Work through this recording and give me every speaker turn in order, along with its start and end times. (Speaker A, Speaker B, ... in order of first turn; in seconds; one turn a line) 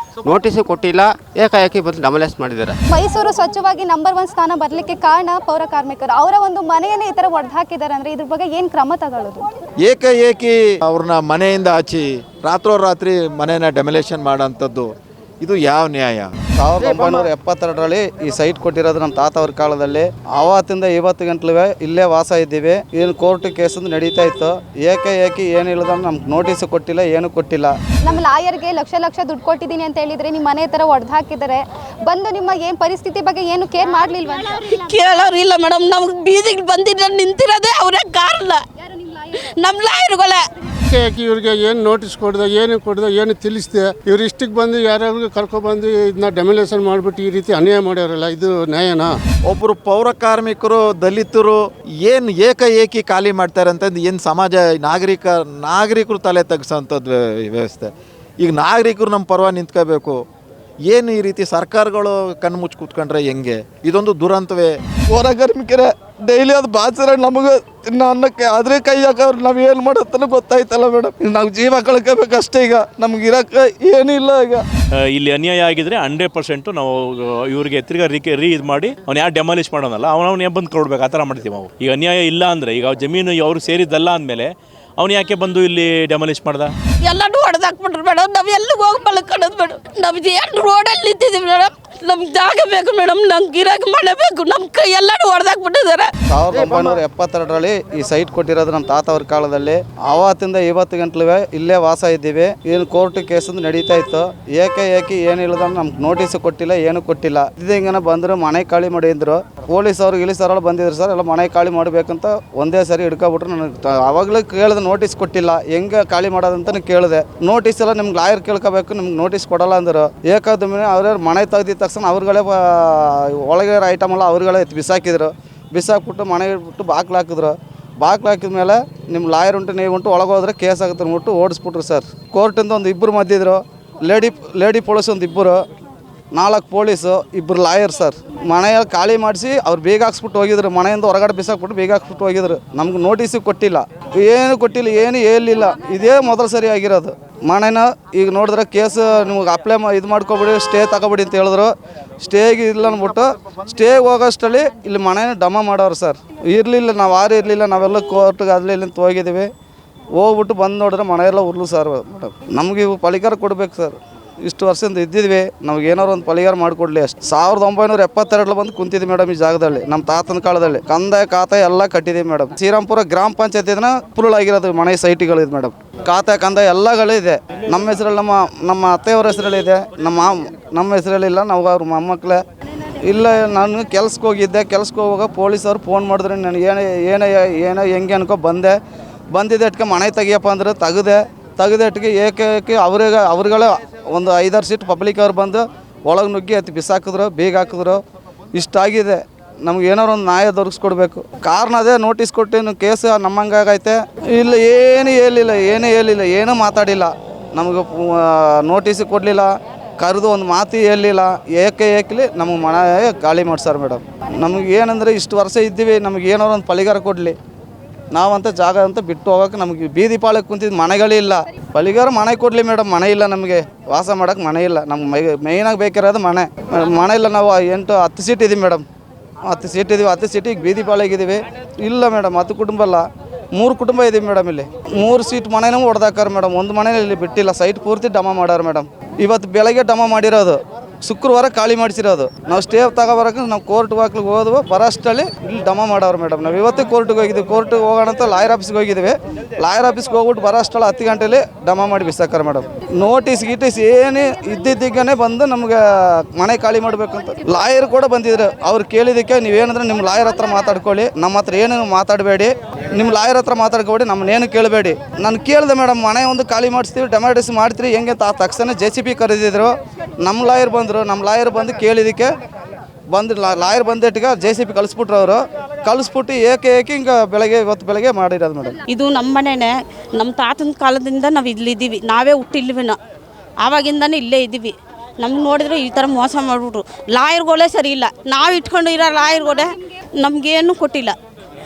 Speaker A: 0.2-2.8
Speaker B: 2.9-9.5
Speaker C: 9.8-14.9
Speaker C: 15.4-17.3
Speaker D: 16.6-27.8
Speaker B: 28.0-34.7
Speaker E: 34.6-38.6
Speaker E: 39.3-40.4
Speaker F: 40.9-49.1
Speaker C: 49.5-60.2
Speaker C: 60.9-64.7
Speaker D: 65.1-74.6
Speaker G: 75.0-86.7
Speaker E: 87.0-96.1
Speaker D: 96.3-135.6
Speaker C: 96.6-97.0
Speaker D: 136.3-159.5
Speaker D: 160.2-182.4
Speaker D: 183.0-188.8
Speaker D: 189.3-198.0
Speaker D: 198.5-217.4
Speaker D: 218.1-228.9
Speaker D: 229.4-272.3
Speaker D: 273.1-278.8
Speaker E: 278.9-283.0
Speaker E: 283.6-291.2